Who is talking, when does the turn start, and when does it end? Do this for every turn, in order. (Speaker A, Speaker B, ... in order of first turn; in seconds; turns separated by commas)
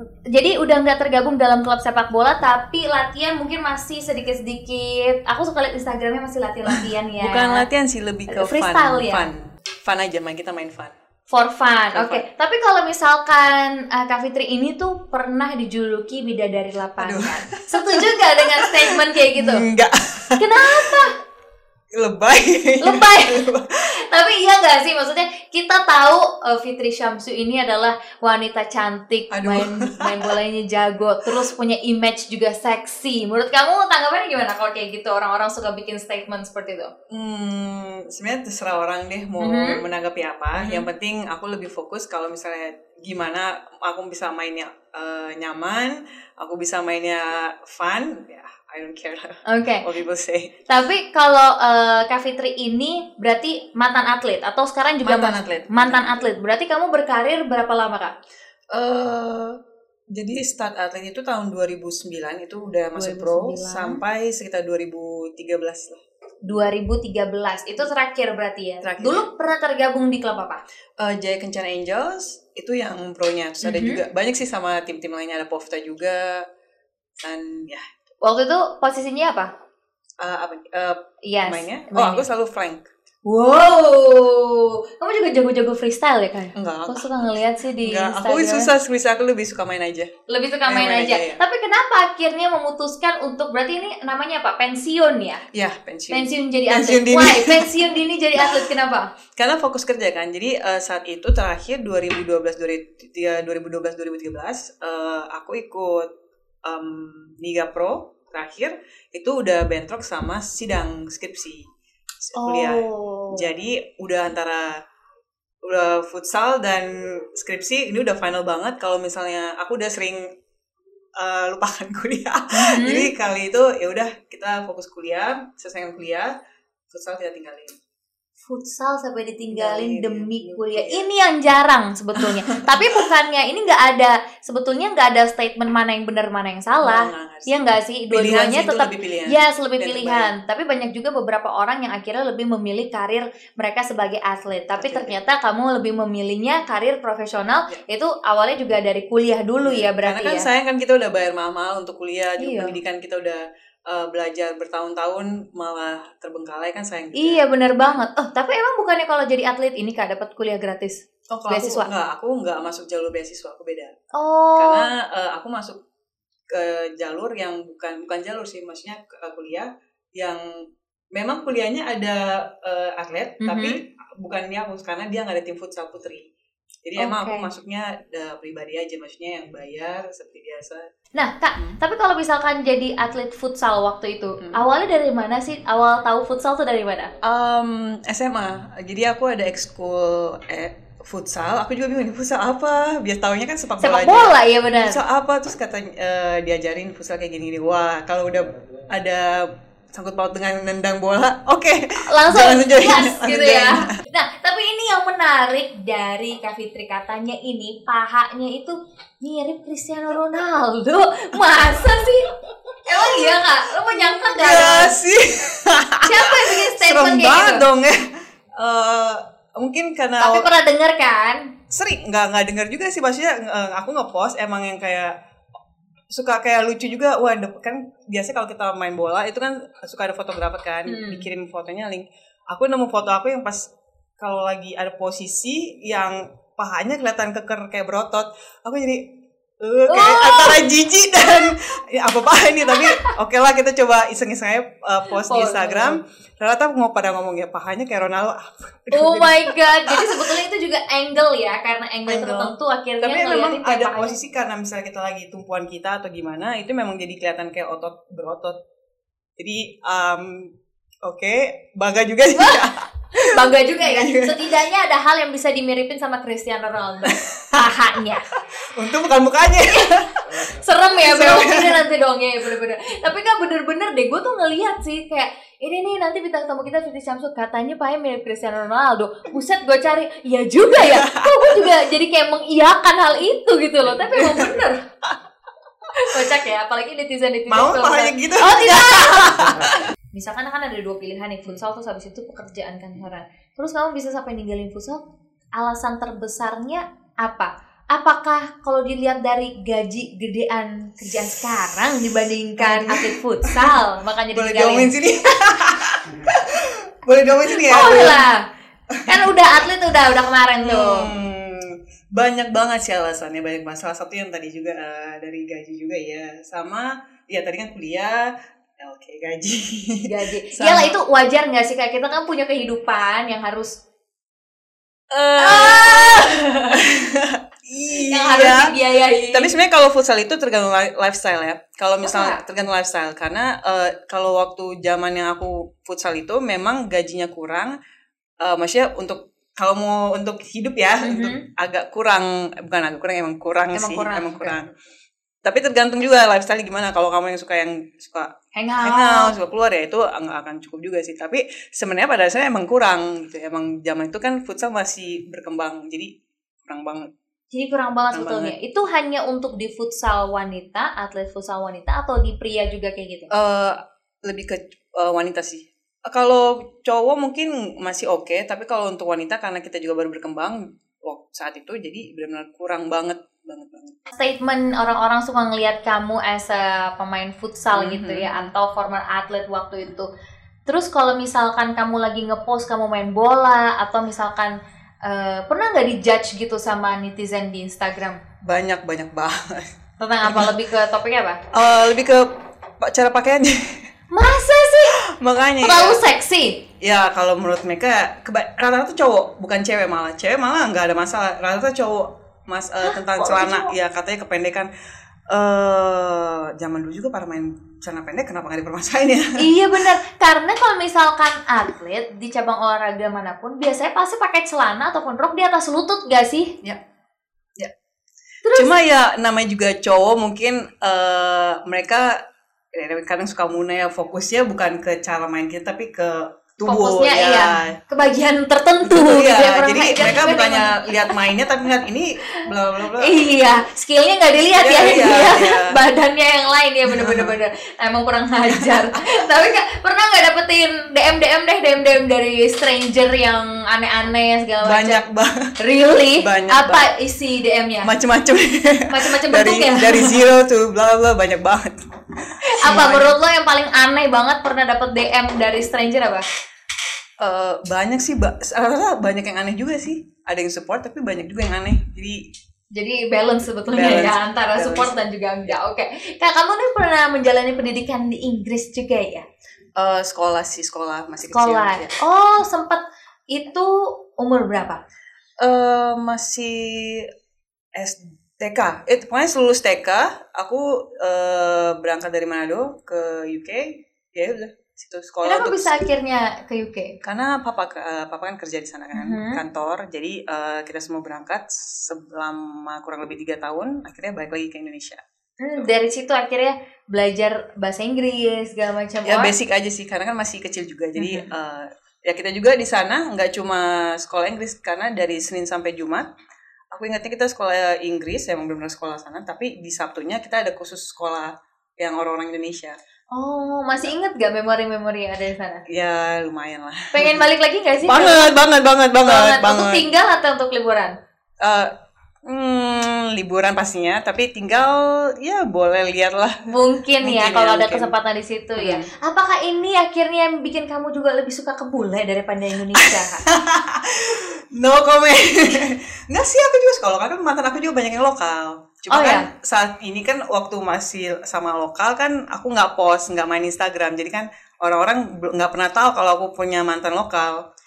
Speaker A: 0.3-7.7, Speaker B: 6.7-10.9, Speaker A: 8.3-9.3, Speaker A: 11.3-19.6, Speaker B: 11.9-12.2, Speaker B: 17.0-21.0, Speaker A: 20.4-21.1, Speaker B: 21.9-23.8, Speaker A: 22.8-36.9, Speaker B: 29.3-30.4, Speaker B: 37.1-50.6, Speaker A: 39.4-39.8, Speaker A: 40.6-40.9, Speaker A: 49.5-49.9, Speaker A: 50.7-58.1, Speaker B: 55.0-56.3, Speaker B: 58.7-59.6, Speaker B: 60.1-66.0, Speaker A: 62.9-64.0, Speaker A: 66.4-70.6, Speaker B: 68.8-69.2, Speaker B: 71.0-76.5, Speaker A: 73.6-74.0, Speaker B: 77.2-77.9, Speaker A: 78.2-79.5, Speaker B: 80.2-82.9, Speaker A: 81.2-82.2, Speaker A: 83.2-88.7, Speaker B: 86.5-90.1, Speaker A: 90.3-95.4, Speaker B: 90.7-91.4, Speaker B: 95.5-97.7, Speaker A: 96.1-99.1, Speaker B: 98.4-98.7, Speaker B: 99.3-106.1, Speaker B: 106.6-111.7, Speaker B: 112.2-114.8, Speaker A: 112.4-113.5, Speaker B: 115.6-120.3, Speaker B: 121.2-126.3, Speaker A: 122.5-123.1, Speaker B: 126.9-127.8, Speaker A: 128.4-150.5, Speaker B: 129.5-131.1, Speaker B: 132.2-133.1, Speaker B: 136.8-140.3, Speaker B: 144.8-145.1, Speaker B: 149.6-158.0, Speaker A: 152.4-152.7, Speaker A: 157.1-161.9, Speaker B: 161.3-163.9, Speaker A: 164.1-164.9, Speaker B: 164.6-165.8, Speaker B: 166.5-176.3, Speaker A: 173.4-173.8, Speaker B: 176.8-180.8, Speaker A: 177.0-177.5, Speaker A: 181.1-187.1, Speaker B: 187.2-203.9, Speaker A: 193.8-195.0, Speaker A: 202.0-212.3, Speaker B: 211.4-212.1, Speaker A: 212.8-215.0, Speaker B: 212.9-220.5, Speaker A: 216.0-217.7, Speaker A: 220.2-221.5, Speaker B: 221.7-225.2, Speaker B: 226.1-250.4, Speaker A: 230.9-231.2, Speaker A: 239.9-240.6, Speaker A: 242.7-243.1, Speaker A: 245.2-246.0, Speaker A: 248.9-254.2, Speaker B: 252.1-258.6, Speaker B: 259.4-260.5, Speaker B: 261.0-264.5, Speaker A: 262.3-268.3, Speaker B: 267.1-267.8, Speaker B: 268.3-270.4, Speaker A: 269.6-284.8, Speaker B: 271.0-271.9, Speaker B: 280.7-281.7, Speaker B: 284.0-285.2, Speaker B: 285.9-286.4, Speaker A: 285.9-295.0, Speaker B: 287.5-289.9, Speaker A: 295.5-304.9, Speaker B: 302.6-303.8, Speaker B: 304.3-308.2, Speaker A: 307.5-308.4, Speaker B: 308.9-309.3, Speaker A: 309.1-311.1, Speaker B: 310.6-321.0, Speaker A: 320.0-323.8, Speaker B: 325.1-328.7, Speaker A: 325.4-326.8, Speaker A: 327.9-329.5, Speaker B: 329.3-337.7, Speaker A: 332.0-332.4, Speaker B: 338.4-344.7, Speaker A: 341.0-341.4, Speaker A: 343.7-344.5, Speaker B: 345.4-356.1, Speaker A: 348.5-349.3, Speaker B: 356.6-357.1, Speaker A: 357.5-363.3, Speaker B: 358.1-358.5, Speaker B: 363.3-374.0, Speaker A: 374.1-380.1, Speaker B: 377.7-378.5, Speaker A: 380.6-388.2, Speaker B: 388.4-389.7, Speaker A: 390.0-391.4, Speaker B: 390.2-390.5, Speaker B: 391.5-392.3, Speaker B: 392.8-393.9, Speaker A: 394.1-395.0, Speaker B: 395.0-396.0, Speaker A: 395.6-396.6, Speaker B: 396.8-404.7, Speaker A: 402.9-403.7, Speaker B: 405.3-409.9, Speaker A: 409.4-416.5, Speaker A: 418.4-418.7, Speaker B: 418.5-422.2, Speaker B: 422.7-427.8, Speaker A: 426.6-431.2, Speaker B: 428.8-433.2, Speaker A: 432.2-445.0, Speaker B: 434.6-435.8, Speaker B: 436.9-437.4, Speaker B: 438.5-439.0, Speaker B: 444.6-445.5, Speaker A: 445.6-447.9, Speaker B: 446.2-446.9, Speaker B: 447.8-453.1, Speaker A: 448.9-450.2, Speaker A: 452.4-456.2, Speaker B: 457.2-462.2, Speaker A: 462.7-469.2, Speaker B: 463.7-465.0, Speaker B: 469.8-472.0, Speaker A: 471.3-474.8, Speaker B: 475.4-477.1, Speaker B: 477.7-485.8, Speaker A: 485.2-487.0, Speaker B: 487.0-495.0, Speaker A: 488.9-489.4, Speaker A: 495.4-499.3, Speaker B: 499.0-506.1, Speaker A: 501.0-501.3, Speaker B: 506.7-512.8, Speaker A: 513.1-515.6, Speaker B: 515.7-517.2, Speaker A: 516.9-518.3, Speaker B: 517.8-519.9, Speaker A: 519.0-520.9, Speaker B: 521.4-521.7, Speaker B: 522.2-526.4, Speaker A: 526.5-533.3, Speaker B: 527.0-527.9, Speaker B: 528.6-528.9, Speaker B: 532.7-547.4, Speaker A: 538.9-539.3